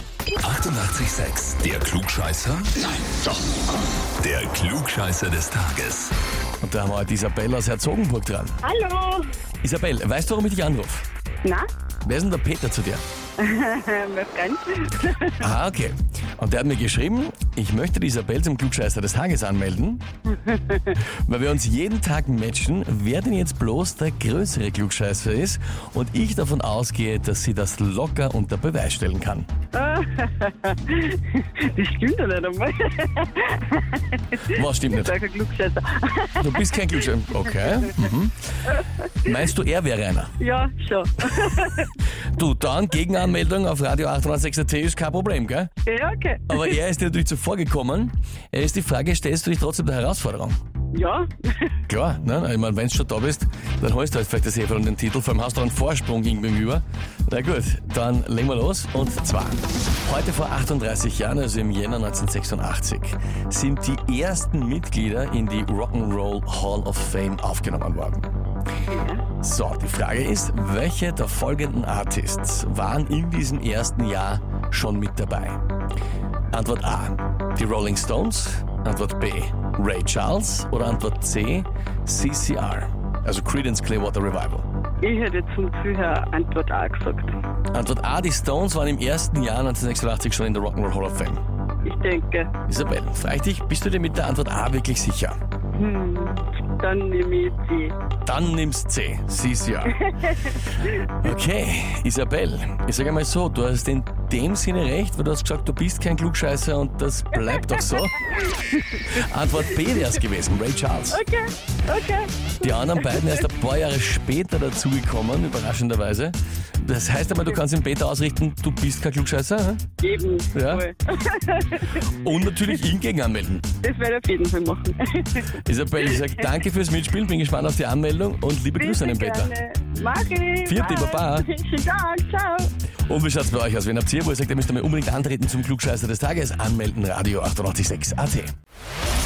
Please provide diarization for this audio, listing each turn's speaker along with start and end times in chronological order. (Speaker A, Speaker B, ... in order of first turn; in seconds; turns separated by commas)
Speaker A: 0.4-2.8, Speaker A: 4.2-6.1, Speaker B: 6.6-8.6, Speaker C: 8.6-9.3, Speaker B: 9.6-11.1, Speaker B: 12.0-13.0, Speaker C: 13.4-15.5, Speaker B: 15.4-20.0, Speaker C: 20.3-21.0, Speaker B: 21.2-29.5, Speaker C: 29.7-37.0, Speaker B: 34.4-35.1, Speaker B: 36.4-38.3, Speaker B: 39.2-40.3, Speaker C: 40.4-41.9, Speaker B: 42.4-45.7, Speaker C: 45.9-46.7, Speaker B: 46.5-50.6, Speaker C: 50.9-51.7, Speaker B: 51.9-68.3, Speaker C: 68.9-69.2, Speaker B: 69.4-75.6, Speaker B: 76.5-84.7, Speaker C: 85.0-87.3, Speaker B: 87.7-91.4, Speaker C: 91.8-92.5, Speaker B: 92.7-95.4, Speaker C: 95.7-98.0, Speaker B: 98.2-100.0, Speaker C: 100.0-101.0, Speaker B: 101.1-108.2, Speaker B: 109.1-111.2, Speaker C: 111.1-113.4, Speaker B: 112.6-119.8, Speaker C: 120.0-122.0, Speaker B: 120.5-120.8, Speaker B: 121.9-123.6, Speaker C: 123.8-125.5, Speaker B: 125.6-129.5, Speaker C: 128.8-132.7, Speaker B: 130.7-131.5, Speaker B: 133.1-138.5